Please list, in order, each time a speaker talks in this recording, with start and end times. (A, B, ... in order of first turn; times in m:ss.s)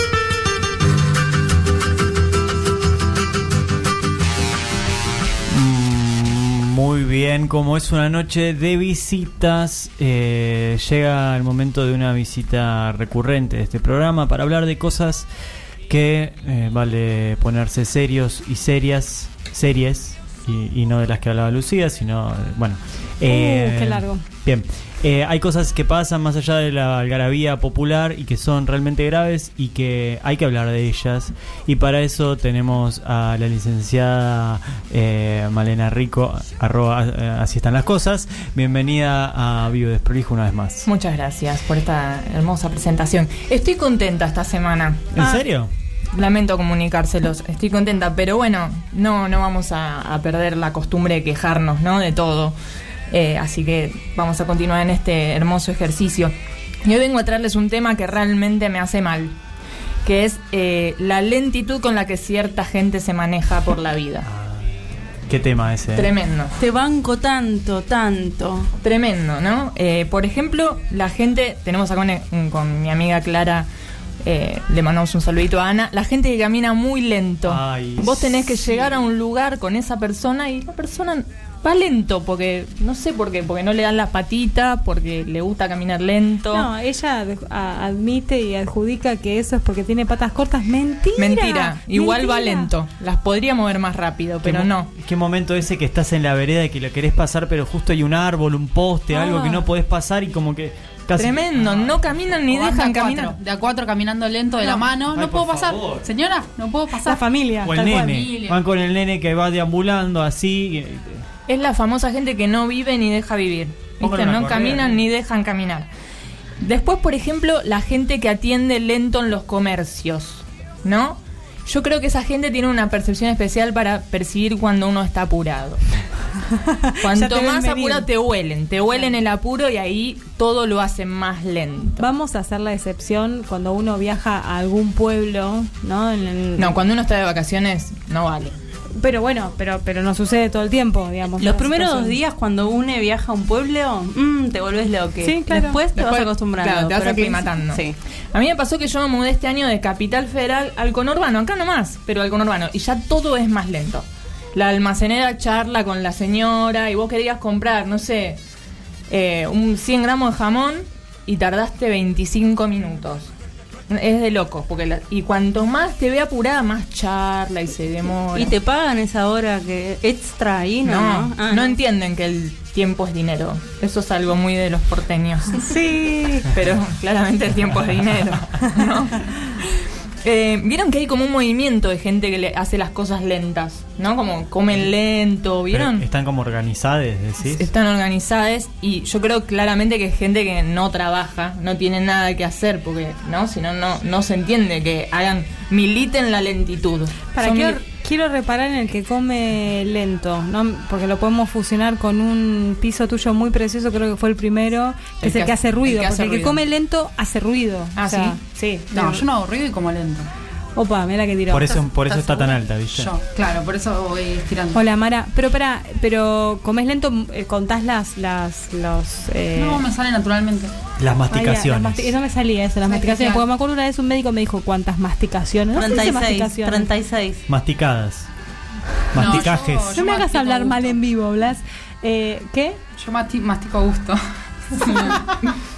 0:05.5-0:15.3 A
0:15.9-0:40.9 A
0:23.3-0:24.2 B
0:40.8-0:45.1 C
0:45.2-0:45.7 A
0:46.1-0:52.6 C
0:53.1-0:59.4 C
1:00.0-1:04.3 C
1:04.2-1:06.1 A
1:05.9-1:06.6 C
1:06.6-1:08.7 D
1:08.8-1:13.7 C
1:14.2-1:26.7 C
1:17.4-1:18.9 A
1:26.5-1:32.7 B
1:31.2-1:34.9 C
1:34.4-1:42.4 A
1:39.1-1:39.6 B
1:41.2-1:43.4 C
1:42.5-1:47.3 E
1:45.0-1:46.1 A
1:46.9-1:48.3 B
1:47.6-1:51.2 A
1:48.1-1:48.6 E
1:51.5-1:55.9 C
1:54.0-1:55.0 A
1:56.6-2:05.8 C
2:06.5-2:08.1 B
2:07.0-2:12.1 C
2:12.0-2:16.8 B
2:16.6-2:18.6 C
2:19.0-2:22.2 B
2:21.4-2:28.0 D
2:25.2-2:25.8 B
2:25.9-2:27.8 C
2:28.3-2:38.4 C
2:39.1-2:43.3 C
2:43.9-2:48.5 C
2:48.3-2:51.8 D
2:50.8-2:55.7 C
2:55.6-2:56.6 B
2:56.5-3:06.0 C
3:05.7-3:07.7 A
3:07.4-3:17.8 C
3:17.3-3:28.4 B
3:25.2-3:26.6 C
3:28.0-3:29.3 C
3:28.9-3:30.3 E
3:30.8-3:31.7 B
3:31.5-3:33.1 A
3:31.7-3:32.5 D
3:32.9-3:34.8 E
3:34.7-3:39.9 B
3:39.6-3:40.7 E
3:41.0-3:42.1 A
3:41.3-3:46.9 B
3:42.8-3:43.5 E
3:45.7-3:47.4 D
3:47.5-3:48.3 A
3:49.1-3:50.0 A
3:49.1-3:51.0 E
3:49.9-3:52.8 B
3:53.0-3:54.2 E
3:54.7-3:55.4 E